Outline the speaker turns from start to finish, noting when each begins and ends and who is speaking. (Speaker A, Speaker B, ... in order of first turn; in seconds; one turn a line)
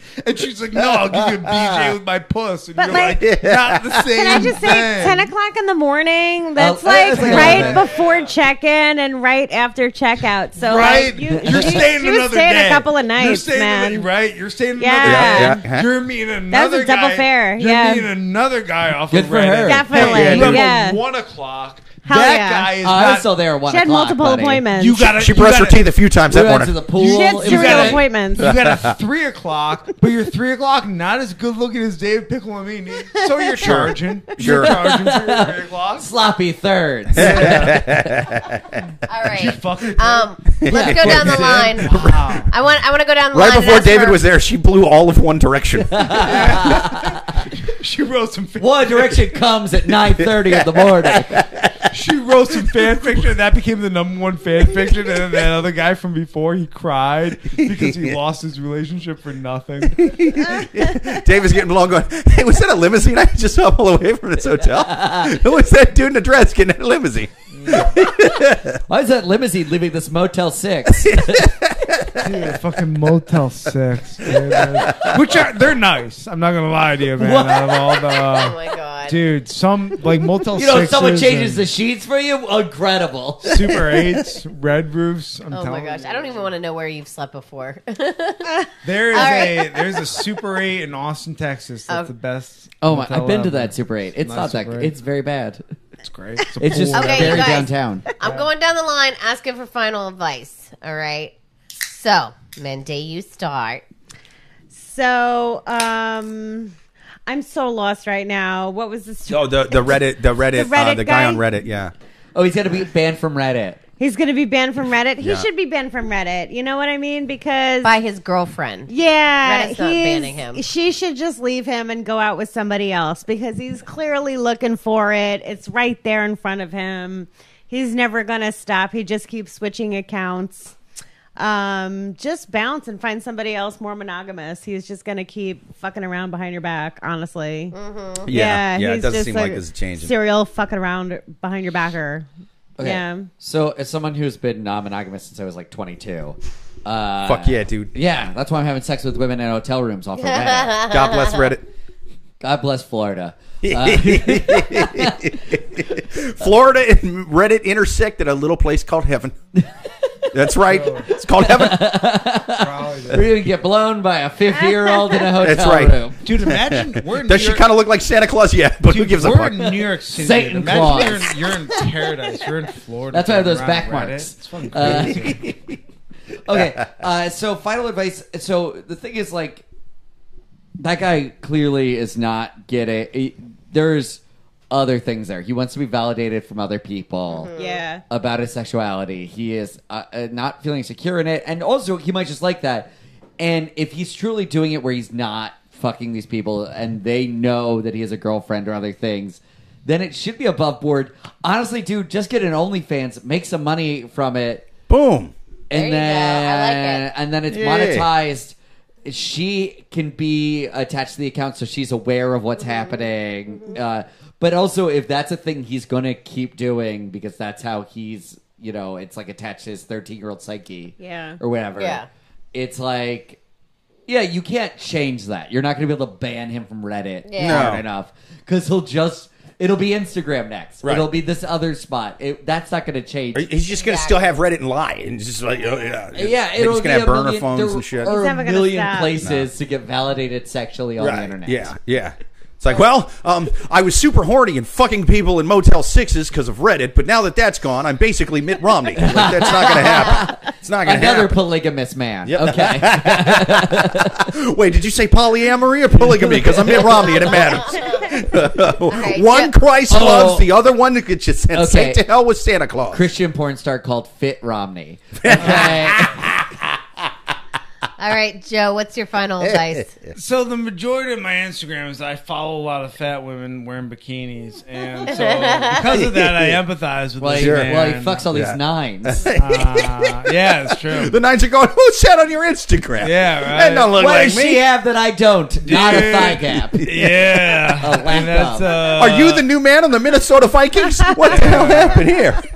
Speaker A: 0.2-5.3
Speaker B: 0.8-1.9
Speaker C: 2.8-3.2
Speaker B: 2.9-4.5
Speaker C: 4.2-14.1
Speaker D: 6.6-7.9
Speaker A: 6.9-8.3
Speaker A: 10.6-23.3
Speaker D: 11.4-11.8
Speaker C: 14.8-15.6
Speaker B: 15.0-15.9
Speaker C: 16.5-18.1
Speaker D: 19.1-20.6
Speaker C: 19.6-21.0
Speaker B: 19.9-20.7
Speaker C: 22.1-22.8
Speaker D: 22.1-24.7
Speaker C: 23.7-25.0
Speaker A: 24.7-25.8
Speaker B: 25.0-26.8
Speaker D: 26.3-28.1
Speaker C: 27.0-28.5
Speaker A: 27.0-36.1
Speaker B: 28.4-29.0
Speaker B: 33.6-34.8
Speaker D: 34.4-38.2
Speaker A: 37.1-37.8
Speaker B: 37.2-38.8
Speaker E: 39.1-44.2
Speaker A: 39.2-42.5
Speaker B: 40.6-41.4
Speaker D: 40.7-41.7
Speaker B: 43.3-46.8
Speaker D: 45.9-47.4
Speaker A: 46.2-49.3
Speaker D: 48.6-51.5
Speaker B: 50.3-51.9
Speaker A: 51.9-60.1
Speaker B: 57.6-58.1
Speaker B: 60.0-68.8
Speaker D: 64.8-65.3
Speaker A: 67.5-68.0
Speaker D: 68.9-71.5
Speaker B: 71.0-72.6
Speaker A: 72.2-81.7
Speaker B: 74.2-75.3
Speaker D: 77.2-77.8
Speaker E: 78.1-79.2
Speaker D: 80.5-83.8
Speaker A: 83.4-86.5
Speaker E: 85.5-90.1
Speaker A: 88.8-94.9
Speaker D: 92.8-95.6
Speaker A: 96.0-97.6
Speaker D: 96.6-98.1
Speaker E: 96.9-103.8
Speaker A: 98.2-98.5
Speaker C: 104.7-106.7
Speaker C: 107.3-110.0
Speaker B: 109.3-111.9
Speaker C: 110.5-111.4
Speaker D: 112.3-113.8
Speaker C: 114.0-117.9
Speaker B: 115.2-115.5
Speaker E: 117.8-120.6
Speaker C: 118.9-130.7
Speaker C: 131.4-137.8
Speaker E: 137.7-138.3
Speaker B: 138.3-140.1
Speaker C: 138.3-142.3
Speaker D: 142.8-150.8
Speaker C: 142.8-143.3
Speaker B: 147.2-147.9
Speaker E: 150.2-151.5
Speaker B: 150.9-151.6
Speaker D: 152.4-155.4
Speaker B: 153.6-159.4
Speaker B: 160.3-161.9
Speaker A: 160.7-161.1
Speaker D: 161.4-166.2
Speaker A: 162.5-163.3
Speaker B: 165.4-169.7
Speaker A: 166.2-167.7
Speaker A: 168.9-175.4
Speaker D: 169.6-171.3
Speaker D: 173.1-175.6
Speaker B: 175.2-175.5
Speaker D: 176.4-179.6
Speaker D: 180.8-184.2
Speaker D: 184.7-187.5
Speaker E: 187.3-187.8
Speaker C: 187.6-188.0
Speaker D: 188.1-204.7
Speaker B: 204.9-205.3
Speaker D: 205.7-222.0
Speaker E: 205.7-207.1
Speaker B: 207.5-208.1
Speaker E: 212.7-212.9
Speaker E: 213.5-213.8
Speaker C: 221.0-221.4
Speaker E: 221.8-222.1
Speaker D: 222.5-223.4
Speaker D: 224.1-233.5
Speaker E: 227.3-227.7
Speaker B: 227.4-227.8
Speaker B: 233.3-238.1
Speaker E: 233.7-234.3
Speaker D: 236.2-241.7
Speaker C: 238.0-239.2
Speaker B: 239.2-239.5
Speaker B: 241.0-251.4
Speaker D: 249.0-254.3
Speaker B: 252.3-263.1
Speaker D: 256.0-257.6
Speaker E: 257.6-258.1
Speaker E: 258.9-259.5
Speaker D: 259.9-260.5
Speaker D: 261.5-262.0
Speaker D: 262.9-266.1
Speaker B: 265.2-266.7
Speaker A: 265.3-265.8
Speaker E: 268.0-269.9
Speaker B: 269.4-270.1
Speaker A: 270.1-278.3
Speaker E: 275.1-275.8
Speaker B: 275.9-276.6
Speaker D: 277.2-279.2
Speaker B: 277.4-277.7
Speaker B: 278.3-284.6
Speaker A: 279.3-281.1
Speaker A: 283.0-284.0
Speaker D: 283.9-286.9
Speaker A: 285.6-289.5
Speaker B: 286.8-287.2
Speaker D: 287.8-288.8
Speaker B: 288.9-292.4
Speaker A: 291.2-292.1